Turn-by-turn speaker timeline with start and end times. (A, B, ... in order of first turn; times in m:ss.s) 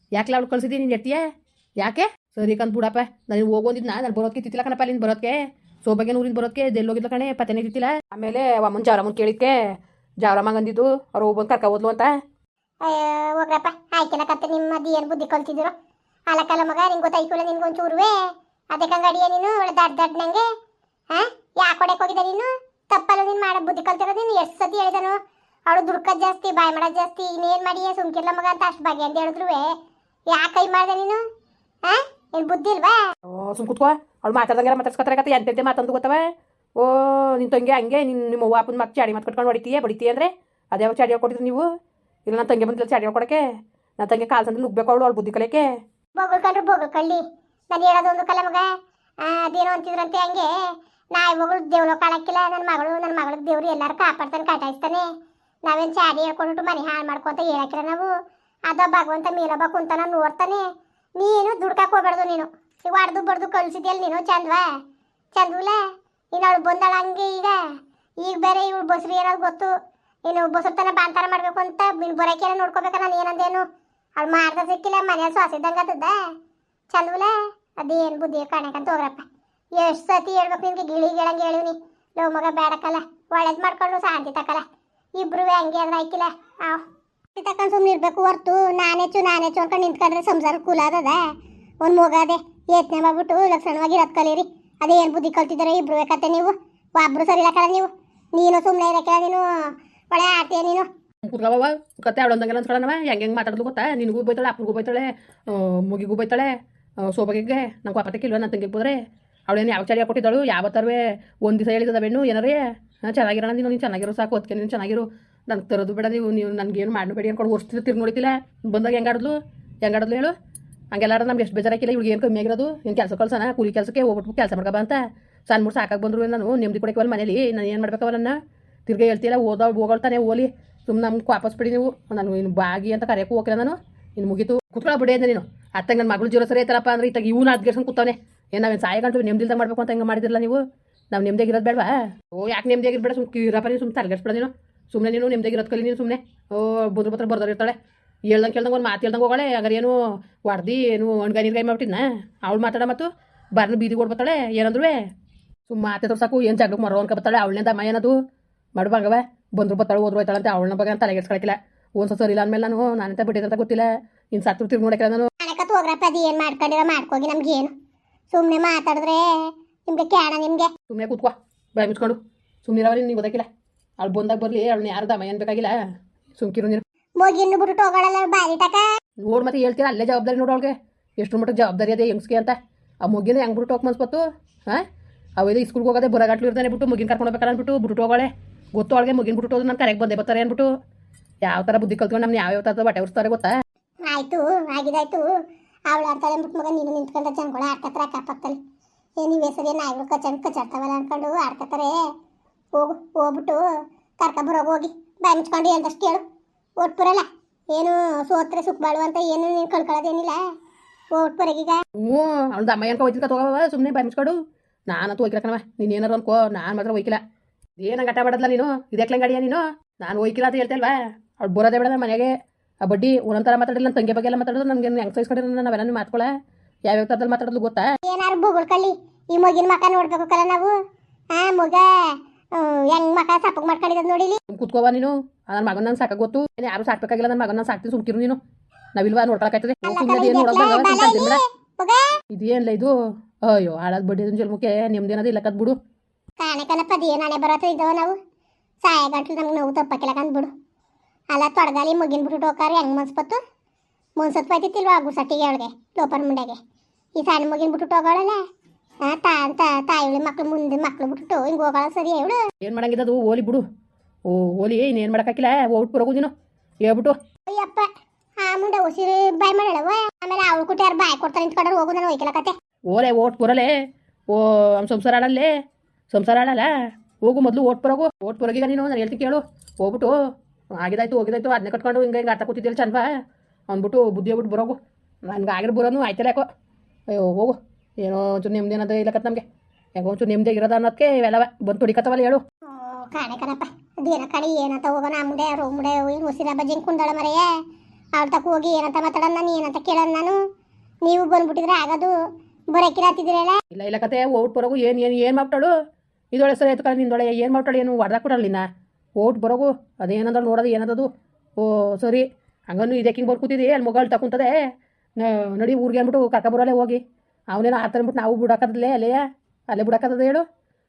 0:00.2-0:01.2 A
0:01.8-0:09.6 A
0:10.2-0:12.1 A
0:12.8-0:15.7 B
0:16.3-0:20.5 B
0:21.1-0:29.7 B
0:30.3-0:31.2 B
0:31.8-0:33.0 B
0:33.3-0:36.2 A
0:36.8-0:41.7 A
0:42.3-0:43.4 A
0:44.0-0:45.7 A
0:46.2-0:48.7 B
0:49.2-0:55.0 B
0:55.6-0:58.1 B
0:58.7-1:00.6 B
1:01.2-1:04.7 B
1:05.3-1:05.8 B
1:06.3-1:07.6 B
1:08.2-1:09.7 B
1:10.3-1:13.6 B
1:14.2-1:16.2 B
1:16.9-1:19.2 B
1:19.8-1:24.6 B
1:25.2-1:26.8 B
1:27.4-1:31.2 B
1:31.8-1:40.9 B
1:41.2-1:46.5 A
1:47.0-1:49.0 A
1:49.5-2:00.3 A
2:00.9-2:08.4 A
2:08.9-2:27.8 A
2:28.3-2:29.9 A
2:30.4-2:35.0 A
2:35.7-2:38.1 A
2:38.8-2:45.3 A
2:45.4-2:47.7 B
2:48.3-2:50.7 B
2:50.9-2:53.5 A
2:54.0-2:55.7 A
2:56.4-2:56.8 A
2:57.2-2:58.8 B
2:59.2-3:04.8 A
3:05.4-3:10.7 A
3:11.4-3:13.5 A
3:14.1-3:15.3 B
3:15.9-3:18.6 B
3:19.2-3:22.0 B
3:22.7-3:23.6 B
3:24.2-3:26.2 B
3:26.8-3:30.4 B
3:31.1-3:31.8 B
3:32.0-3:34.4 A
3:34.9-3:37.2 A
3:37.8-3:42.3 A
3:42.8-3:46.3 A
3:46.9-3:47.8 A
3:48.0-3:50.7 B
3:51.3-3:54.4 B
3:54.5-3:58.4 A
3:59.0-4:01.4 A
3:59.8-4:02.1 B
4:02.3-4:02.9 A
4:03.4-4:05.8 A
4:06.4-4:08.2 B
4:08.8-4:10.5 B
4:11.3-4:13.4 B
4:14.2-4:16.6 B
4:17.2-4:18.4 B
4:19.0-4:22.4 B
4:22.6-4:23.6 A
4:24.3-4:26.3 A
4:26.8-4:27.1 A
4:27.4-4:27.9 B
4:28.4-4:32.5 B
4:32.9-4:33.7 A
4:34.3-4:35.5 A
4:36.1-4:36.7 A
4:37.2-4:40.1 A
4:40.8-4:43.0 A
4:43.7-4:46.4 A
4:47.1-4:49.4 A
4:50.0-4:52.4 A
4:52.7-4:57.5 B
4:58.2-5:00.4 B
5:01.0-5:02.2 B
5:02.7-5:03.6 B
5:03.7-5:05.7 A
5:06.3-5:08.6 A
5:09.2-5:11.1 A
5:11.6-5:14.5 A
5:15.2-5:20.4 A